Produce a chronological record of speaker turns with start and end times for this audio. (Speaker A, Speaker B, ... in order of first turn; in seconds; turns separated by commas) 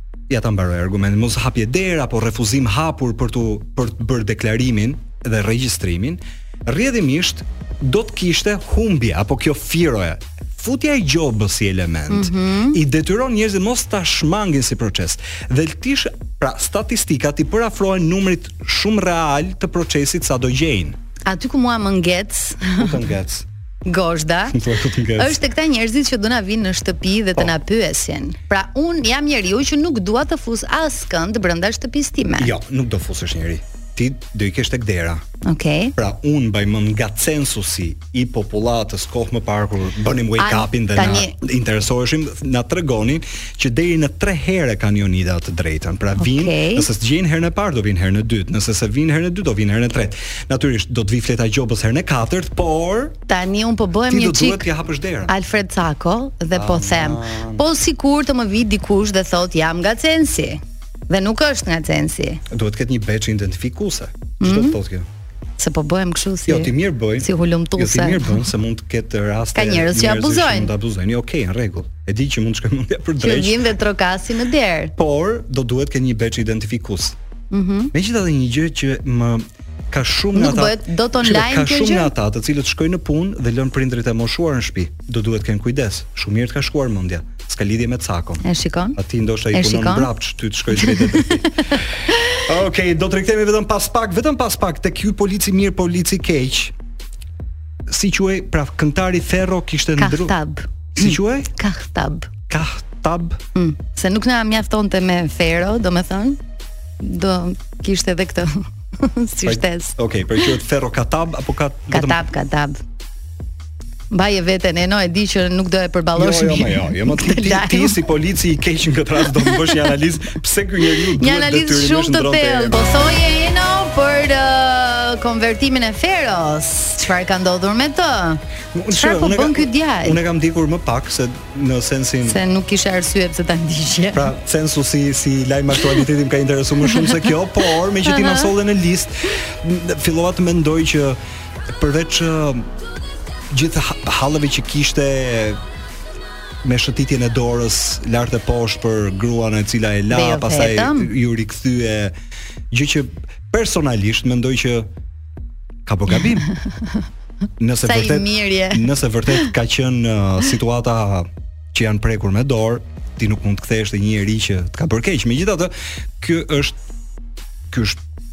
Speaker A: 0.3-21.0, Speaker B: 12.1-12.8, Speaker B: 21.2-22.9, Speaker A: 22.8-23.5, Speaker B: 23.9-32.5, Speaker A: 24.5-25.4, Speaker A: 32.4-35.2, Speaker B: 35.4-35.9, Speaker A: 36.0-53.2, Speaker B: 40.4-41.3, Speaker B: 46.2-46.9, Speaker B: 53.3-54.7, Speaker A: 54.1-55.3, Speaker B: 55.3-62.4, Speaker A: 56.5-57.6, Speaker A: 62.5-65.1, Speaker B: 64.4-64.8, Speaker B: 65.6-68.4, Speaker A: 66.5-73.6, Speaker B: 69.5-70.7, Speaker B: 73.2-74.9, Speaker A: 75.0-77.2, Speaker B: 77.5-77.9, Speaker A: 77.9-88.4, Speaker B: 80.3-82.1, Speaker B: 88.4-89.0, Speaker A: 89.0-96.7, Speaker B: 89.5-90.1, Speaker B: 90.8-91.8, Speaker A: 97.9-100.3, Speaker B: 100.0-102.3, Speaker A: 100.9-101.5, Speaker A: 102.5-103.4, Speaker B: 103.5-106.4, Speaker B: 107.0-110.5, Speaker A: 109.4-112.2, Speaker B: 111.9-112.8, Speaker B: 114.1-118.0, Speaker A: 116.2-122.9, Speaker B: 121.1-130.2, Speaker A: 128.7-132.4, Speaker B: 132.2-134.3, Speaker A: 134.1-141.2, Speaker B: 138.1-138.5, Speaker A: 141.8-142.7, Speaker A: 143.5-145.6, Speaker A: 146.6-152.1, Speaker B: 150.1-151.1, Speaker A: 152.7-154.9, Speaker A: 155.8-156.5, Speaker A: 157.6-166.8, Speaker B: 157.8-159.5, Speaker A: 167.7-168.0